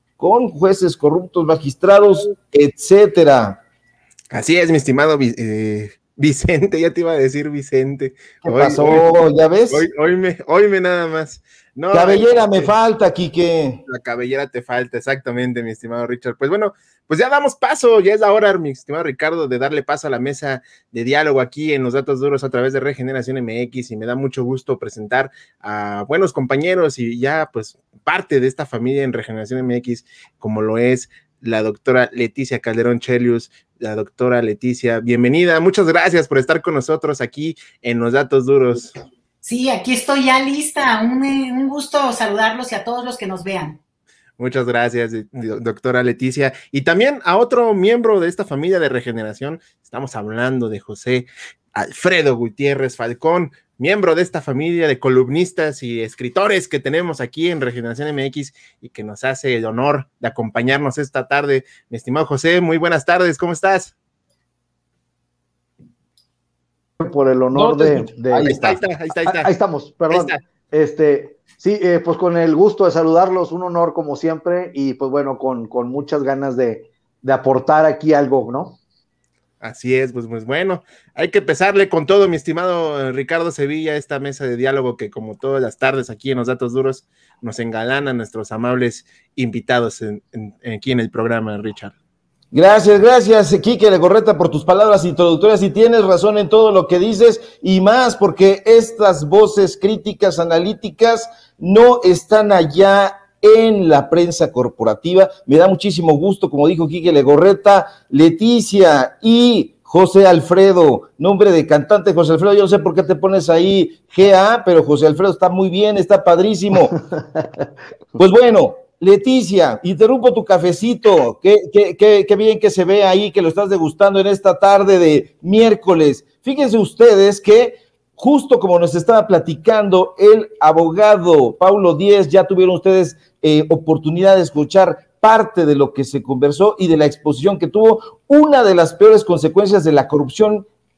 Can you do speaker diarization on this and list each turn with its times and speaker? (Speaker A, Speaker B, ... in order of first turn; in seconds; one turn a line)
Speaker A: 0.2-3.6
Speaker B: 4.3-9.1
Speaker A: 8.4-9.9
Speaker B: 9.7-12.7
Speaker A: 11.9-13.8
Speaker B: 13.9-38.9
Speaker C: 39.4-43.8
Speaker B: 44.4-63.9
Speaker D: 67.0-78.8
Speaker B: 67.5-69.5
Speaker B: 70.1-70.4
Speaker B: 79.6-91.9
Speaker A: 92.5-117.0
Speaker A: 118.2-140.7